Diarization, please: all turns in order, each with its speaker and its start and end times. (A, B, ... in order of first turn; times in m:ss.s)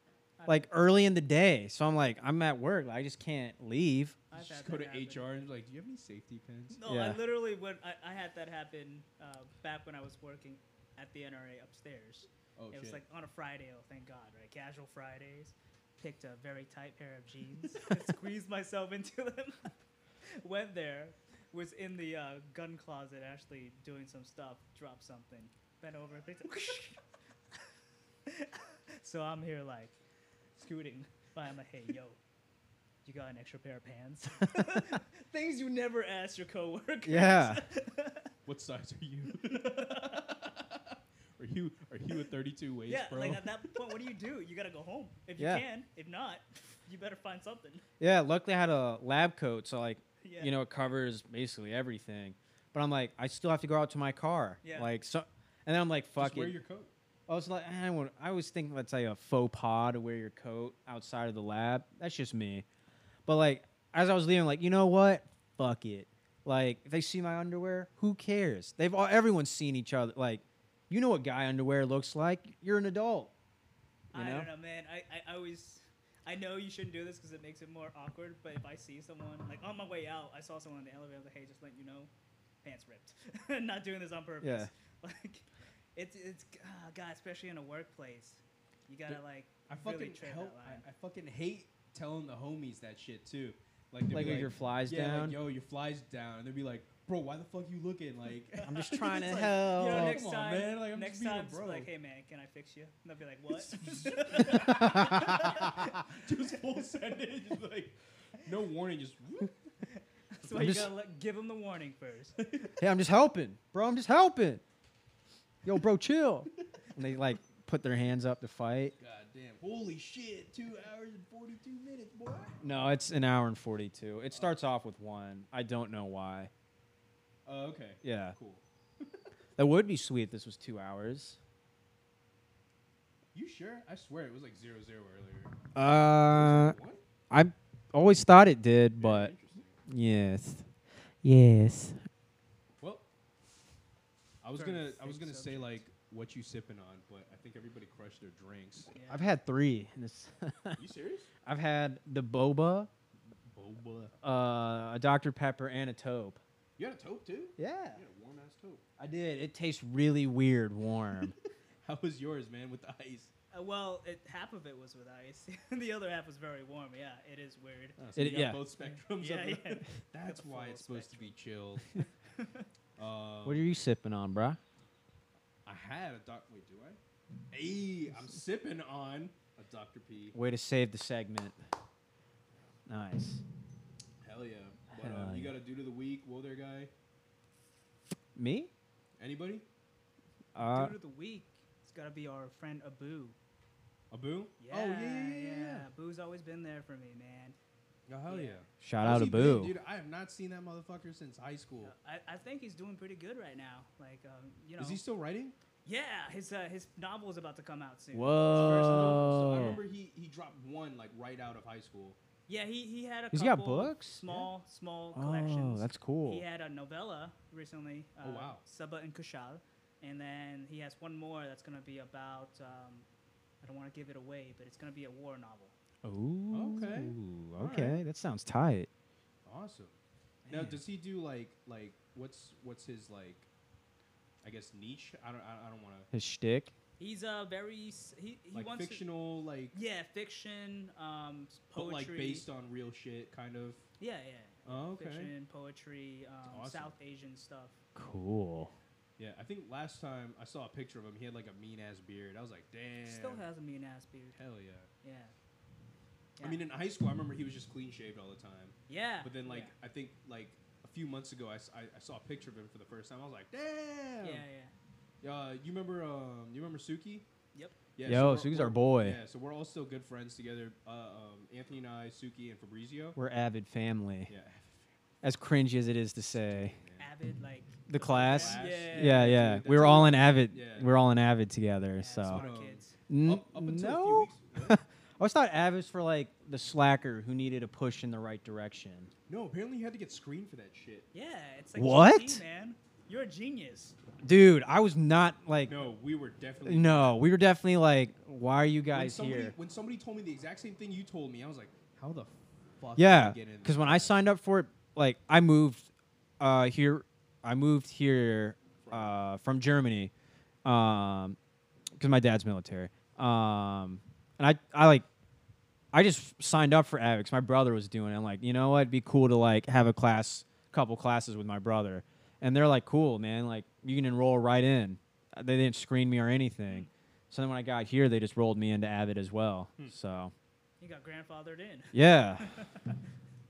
0:00.4-0:00.7 A
0:00.5-0:04.2 B
0:04.3-0:05.3 A
0:04.3-0:06.8 C
0:06.8-0:19.7 A
0:06.9-0:07.2 B
0:12.6-0:13.0 C
0:20.3-0:27.0 A
0:28.3-0:30.0 A
0:30.6-0:32.2 A
0:33.0-0:38.3 A
0:37.0-0:37.7 B
0:38.5-0:43.5 C
0:39.5-0:40.2 A
0:42.9-0:47.8 A
0:45.4-0:45.7 B
0:48.0-0:56.6 B
0:50.2-0:50.5 A
0:54.6-0:54.9 A
0:56.2-0:56.9 C
0:57.3-1:02.6 B
1:03.3-1:13.3 B
1:14.1-1:22.1 A
1:14.1-1:14.5 B
1:22.6-1:30.8 A
1:24.4-1:24.7 B
1:29.1-1:41.9 C
1:34.1-1:35.4 B
1:38.6-1:40.2 B
1:39.2-1:46.0 A
1:43.5-1:49.6 C
1:44.5-1:45.6 B
1:50.0-1:52.5 A
1:50.5-1:50.9 B
1:52.4-1:52.7 C
1:52.8-1:54.6 B
1:55.6-1:59.0 B
1:59.0-2:02.9 C
2:02.6-2:06.5 B
2:04.3-2:04.6 C
2:07.5-2:09.3 C
2:08.0-2:08.4 B
2:09.6-2:11.4 B
2:13.3-2:15.6 C
2:15.8-2:16.8 B
2:16.1-2:17.0 C
2:17.3-2:19.3 B
2:19.0-2:19.8 C
2:19.9-2:20.7 B
2:21.2-2:22.0 B
2:22.8-2:23.1 C
2:24.4-2:28.9 C
2:24.6-2:25.8 A
2:28.9-2:29.3 A
2:29.1-2:30.8 B
2:30.8-2:31.3 C
2:31.4-2:32.9 B
2:33.5-2:34.1 C
2:34.2-2:36.4 B
2:36.8-2:38.8 C
2:37.6-2:38.0 B
2:39.0-2:41.3 B
2:41.8-2:43.3 C
2:43.5-2:48.0 A
2:48.0-2:51.9 C
2:48.2-2:48.6 B
2:49.1-2:51.4 A
2:52.0-2:52.7 A
2:53.0-2:53.7 C
2:53.4-2:54.6 B
2:55.7-2:57.0 C
2:57.5-3:00.4 C
3:00.3-3:01.6 B
3:02.9-3:03.4 B
3:04.2-3:06.9 C
3:04.9-3:05.6 B
3:08.4-3:08.7 B
3:09.2-3:09.7 C
3:10.6-3:11.0 B
3:10.6-3:13.4 A
3:14.1-3:15.9 C
3:14.6-3:17.6 A
3:18.1-3:21.9 C
3:18.3-3:18.6 A
3:18.8-3:19.8 B
3:21.8-3:25.0 A
3:24.8-3:25.6 C
3:25.8-3:29.2 A
3:28.1-3:29.8 B
3:28.5-3:32.2 C
3:32.5-3:43.1 A
3:33.3-3:34.2 B
3:35.1-3:36.4 B
3:38.2-3:38.6 C
3:43.6-3:45.8 A
3:46.0-3:48.9 B
3:46.5-3:48.0 C
3:49.4-3:53.5 C
3:50.5-3:50.8 B
3:54.4-3:56.1 C
3:56.1-3:56.7 B
3:57.0-3:59.1 A
3:58.5-3:59.8 C
3:59.7-4:02.5 A
4:01.8-4:03.8 C
4:04.0-4:07.8 A
4:04.7-4:05.3 C
4:06.5-4:07.0 C
4:08.0-4:08.7 B
4:09.2-4:13.4 C
4:13.0-4:14.4 A
4:14.4-4:14.9 C
4:15.0-4:15.3 A
4:16.4-4:16.6 A
4:16.4-4:24.4 C
4:18.9-4:19.7 A
4:24.2-4:24.7 A
4:25.2-4:27.3 C
4:28.0-4:33.2 C
4:28.0-4:29.2 B
4:33.2-4:34.3 B
4:34.3-4:34.9 C
4:35.2-4:36.8 B
4:36.5-4:37.1 C
4:37.0-4:39.4 A
4:37.9-4:42.4 B
4:37.9-4:41.0 C
4:42.0-4:43.0 A
4:42.3-4:44.8 C
4:43.1-4:49.1 B
4:49.3-4:51.1 C
4:51.1-4:54.0 A
4:51.8-4:52.4 B
4:54.2-4:55.9 B
4:55.7-4:57.2 C
4:56.6-4:59.6 B
4:58.9-5:04.2 C
5:03.0-5:05.9 B
5:06.4-5:10.1 B
5:08.8-5:09.2 C
5:10.6-5:11.4 B
5:12.0-5:15.1 B
5:15.9-5:30.3 B
5:30.8-5:32.9 A
5:31.9-5:32.5 B